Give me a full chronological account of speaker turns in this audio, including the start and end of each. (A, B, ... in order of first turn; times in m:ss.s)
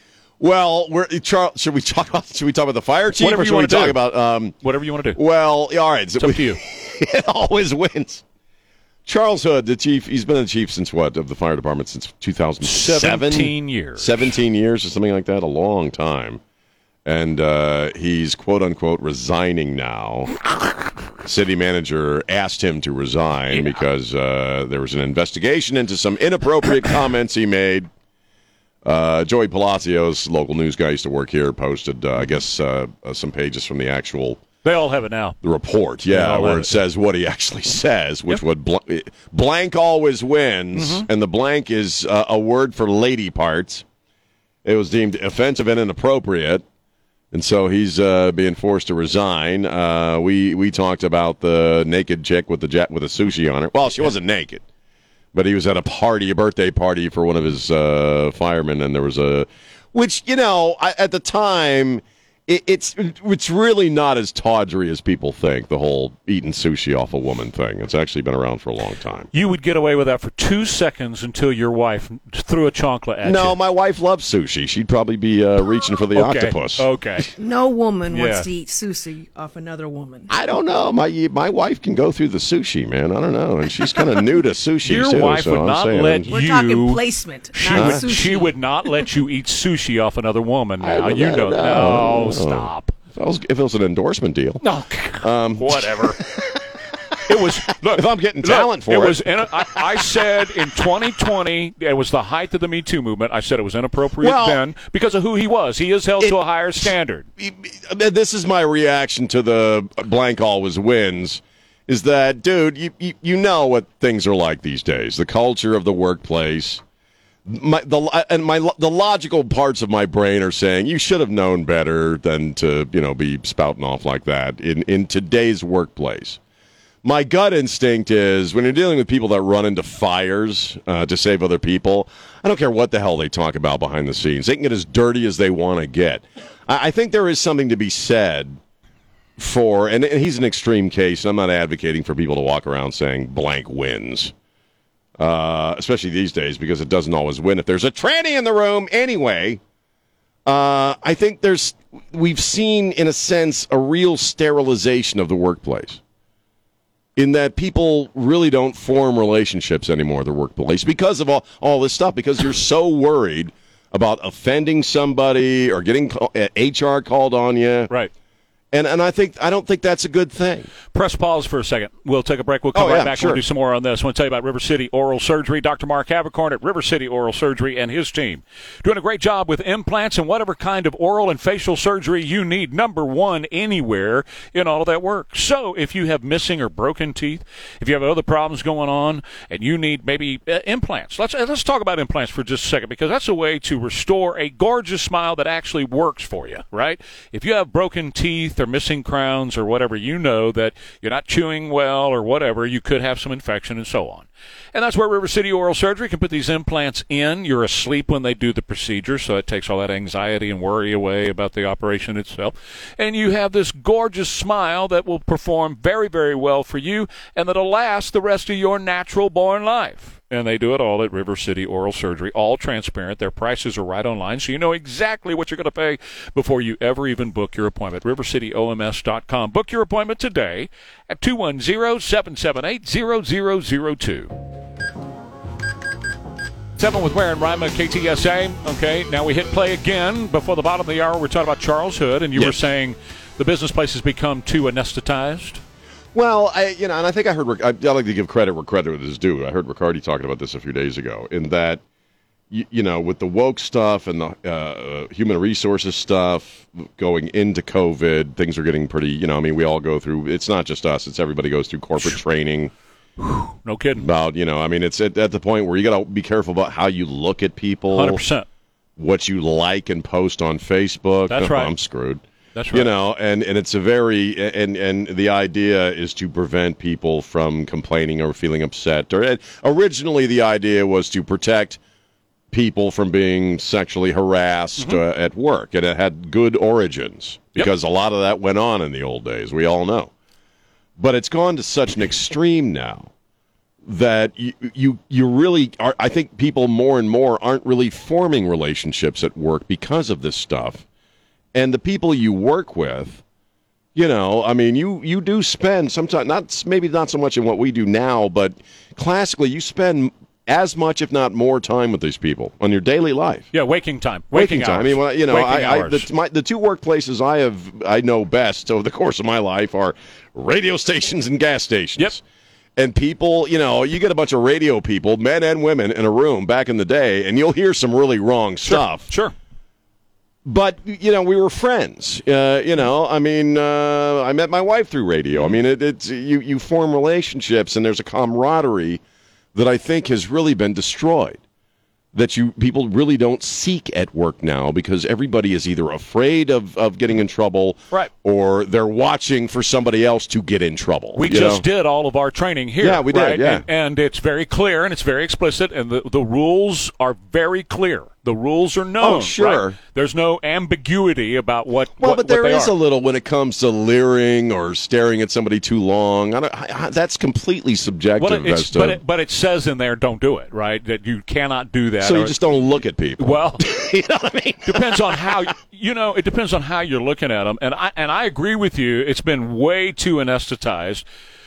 0:00.4-0:04.5 A
0:03.2-0:04.0 B
0:04.6-0:05.2 B
0:05.2-0:08.2 A
0:06.2-0:06.6 B
0:09.1-0:16.4 A
0:12.6-0:14.4 B
0:17.0-0:20.4 A
0:21.2-0:27.9 A
0:28.8-0:34.4 A
0:34.6-0:35.4 B
0:35.4-0:43.8 A
0:36.1-0:36.7 B
0:40.8-0:41.1 B
0:44.6-0:46.6 A
0:47.3-0:54.6 A
0:55.3-1:09.3 A
1:09.3-1:13.6 B
1:13.2-1:16.9 A
1:16.1-1:17.3 B
1:17.4-1:20.3 C
1:18.1-1:18.5 B
1:20.3-1:26.3 A
1:24.8-1:33.0 B
1:26.3-1:28.6 C
1:27.7-1:28.0 A
1:30.8-1:34.6 A
1:34.6-1:36.2 B
1:35.2-1:40.6 A
1:37.3-1:47.3 B
1:44.2-1:44.6 A
1:46.2-1:46.9 A
1:47.4-1:56.8 A
1:57.5-2:06.4 A
2:07.0-2:18.6 A
2:19.4-2:24.3 A
2:25.2-2:29.6 A
2:30.5-2:36.0 A
2:37.2-2:47.9 A
2:48.7-2:50.7 A
2:50.9-3:54.3 B
2:52.7-2:53.4 A
3:56.8-4:05.6 B
4:06.1-4:11.8 A
4:12.5-4:22.7 A
4:23.2-4:24.1 B
4:24.0-4:28.2 A
4:27.9-4:28.5 B
4:29.0-4:41.8 A
4:31.3-4:31.7 B
4:32.6-4:32.9 B
4:42.5-4:50.1 A
4:51.0-4:53.1 A
4:53.8-5:00.8 A
5:01.5-5:03.2 A
5:04.0-5:13.5 A
5:13.5-5:16.1 B
5:14.3-5:22.2 A
5:22.8-5:29.1 A
5:28.7-5:29.3 B
5:30.4-5:39.0 A
5:39.6-5:41.4 A
5:42.1-5:51.6 A
5:51.2-6:02.7 B
5:52.8-5:53.6 A
5:59.0-5:59.8 A
6:02.0-6:09.0 A
6:08.2-6:12.4 B
6:12.0-6:15.4 A
6:13.2-6:13.7 B
6:14.7-6:21.0 B